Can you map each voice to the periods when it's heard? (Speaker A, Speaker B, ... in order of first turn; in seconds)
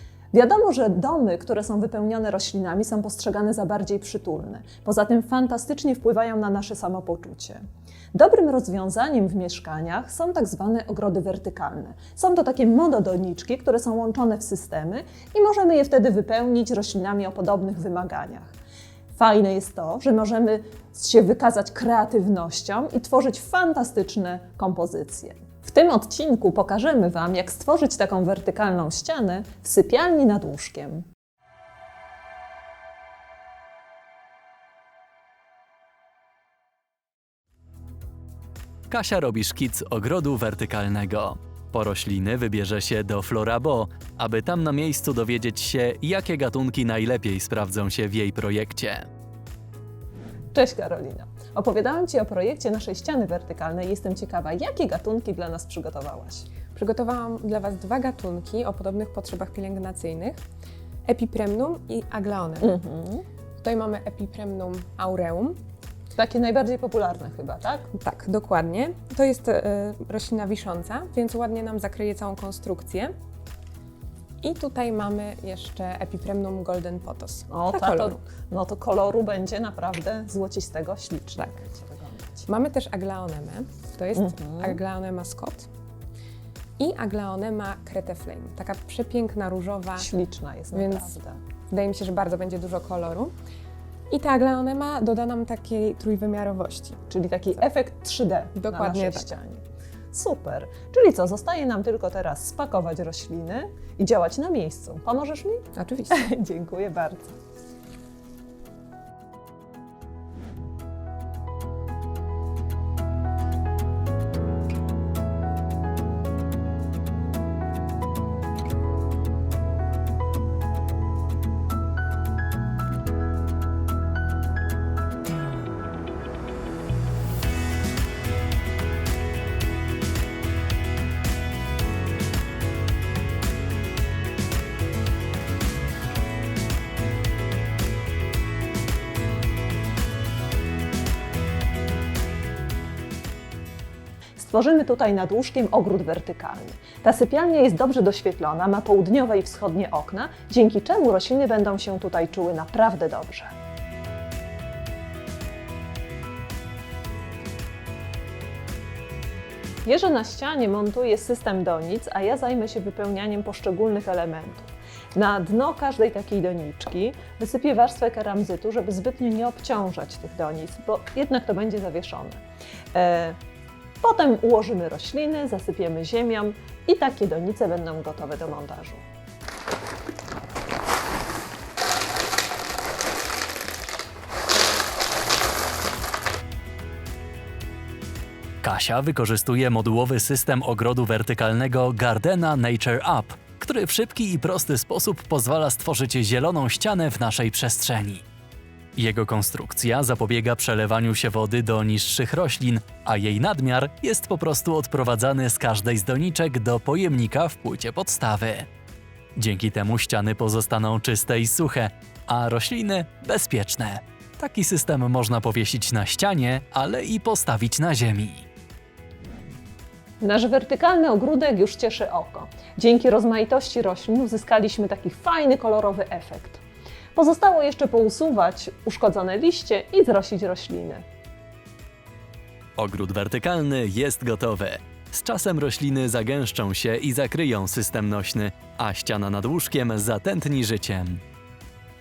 Speaker A: 0.3-7.6, 8.1-18.5, 19.1-31.1, 50.5-56.5, 62.6-63.2, 66.1-67.9, 77.5-82.5, 84.2-84.8, 90.0-91.4, 97.1-107.3, 144.4-153.5, 159.8-172.4, 172.9-173.4, 174.0-179.0, 220.2-226.6, 227.1-231.0
Speaker B: 38.9-49.1, 188.6-198.2, 198.9-208.7, 209.3-218.4, 232.8-241.2
Speaker C: 56.7-60.3, 61.1-62.7, 63.6-65.5, 68.0-73.1, 74.4-77.4, 82.6-85.6, 86.8-89.9, 91.7-93.3, 94.1-97.0, 98.7-99.1